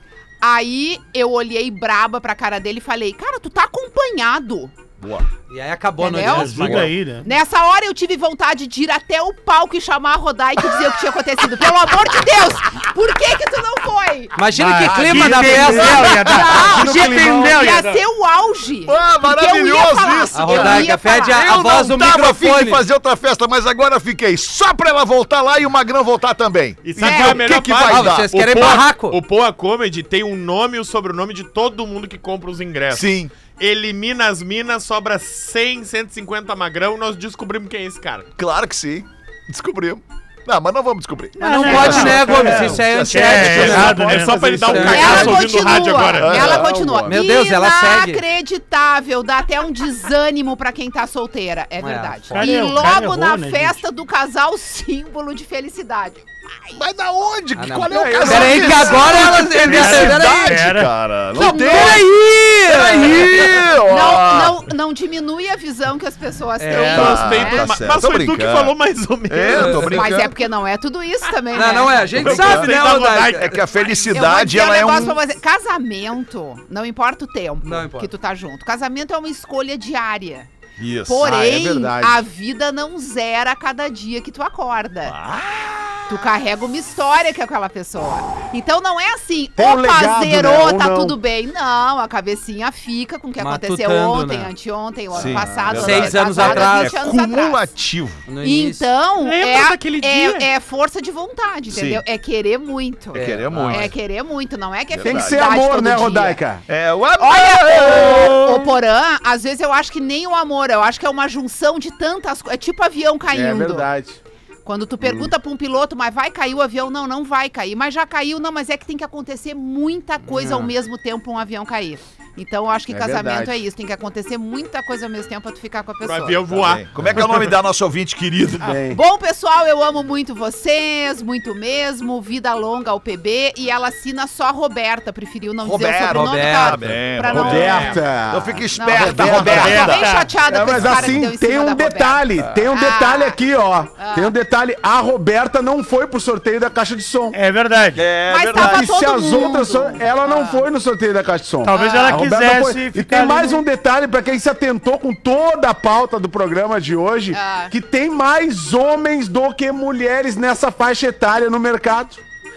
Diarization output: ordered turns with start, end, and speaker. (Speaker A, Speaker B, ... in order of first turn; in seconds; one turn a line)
Speaker A: 0.4-4.7
Speaker B: 5.0-5.3
Speaker C: 5.5-6.9
Speaker A: 6.0-14.4
Speaker D: 6.2-7.3
Speaker C: 14.3-16.1
Speaker D: 14.6-18.0
Speaker E: 14.8-17.6
Speaker A: 15.8-21.5
Speaker B: 18.9-28.5
Speaker C: 20.3-22.8
Speaker F: 26.8-38.3
Speaker A: 27.0-27.5
Speaker C: 27.9-29.2
Speaker B: 32.9-33.3
Speaker B: 38.4-44.0
Speaker D: 41.4-46.0
Speaker C: 41.4-44.0
Speaker F: 43.6-46.6
Speaker E: 43.8-45.4
Speaker C: 44.6-45.4
Speaker A: 44.9-56.8
Speaker B: 46.2-46.7
Speaker E: 46.2-47.2
Speaker C: 47.0-48.2
Speaker C: 51.8-52.7
Speaker D: 52.3-53.8
Speaker B: 56.8-64.6
Speaker C: 57.6-60.6
Speaker E: 57.9-59.3
Speaker D: 59.6-60.9
Speaker C: 61.3-63.7
Speaker A: 61.4-62.0
Speaker A: 63.9-67.7
Speaker C: 66.6-67.2
Speaker B: 66.8-68.7
Speaker F: 66.9-70.0
Speaker B: 69.3-70.4
Speaker C: 69.5-70.0
Speaker A: 69.9-72.4
Speaker C: 71.5-73.6
Speaker F: 72.2-73.6
Speaker B: 72.2-75.2
Speaker A: 74.1-80.5
Speaker C: 77.6-78.1
Speaker B: 80.8-81.4
Speaker A: 81.1-85.2
Speaker E: 81.2-82.2
Speaker B: 85.0-86.3
Speaker A: 86.1-97.7
Speaker E: 89.6-91.2
Speaker C: 93.4-94.5
Speaker B: 95.1-98.3
Speaker E: 95.2-95.5
Speaker C: 95.7-97.0
Speaker C: 98.3-98.9
Speaker A: 98.4-106.4
Speaker F: 99.3-100.4
Speaker B: 101.7-102.0
Speaker C: 103.1-103.9
Speaker B: 103.1-104.0
Speaker B: 104.9-105.5
Speaker E: 105.0-106.6
Speaker B: 106.7-108.7
Speaker A: 107.2-113.9
Speaker E: 107.9-108.3
Speaker E: 113.3-114.2
Speaker A: 114.7-126.6
Speaker E: 115.0-115.3
Speaker C: 120.3-120.7
Speaker E: 122.9-123.6
Speaker F: 126.0-127.5
Speaker B: 126.5-128.8
Speaker E: 128.6-129.0
Speaker A: 128.8-138.0
Speaker B: 135.6-140.1
Speaker C: 136.1-137.0
Speaker E: 137.3-139.9
Speaker F: 137.6-138.0
Speaker A: 138.8-143.4
Speaker D: 139.4-140.4
Speaker E: 140.5-147.4
Speaker B: 140.7-141.2
Speaker A: 144.0-144.3
Speaker D: 147.3-148.1
Speaker B: 147.9-148.9
Speaker A: 148.3-150.7
Speaker E: 148.5-162.2
Speaker D: 151.6-153.6
Speaker A: 151.7-152.2
Speaker A: 157.3-157.7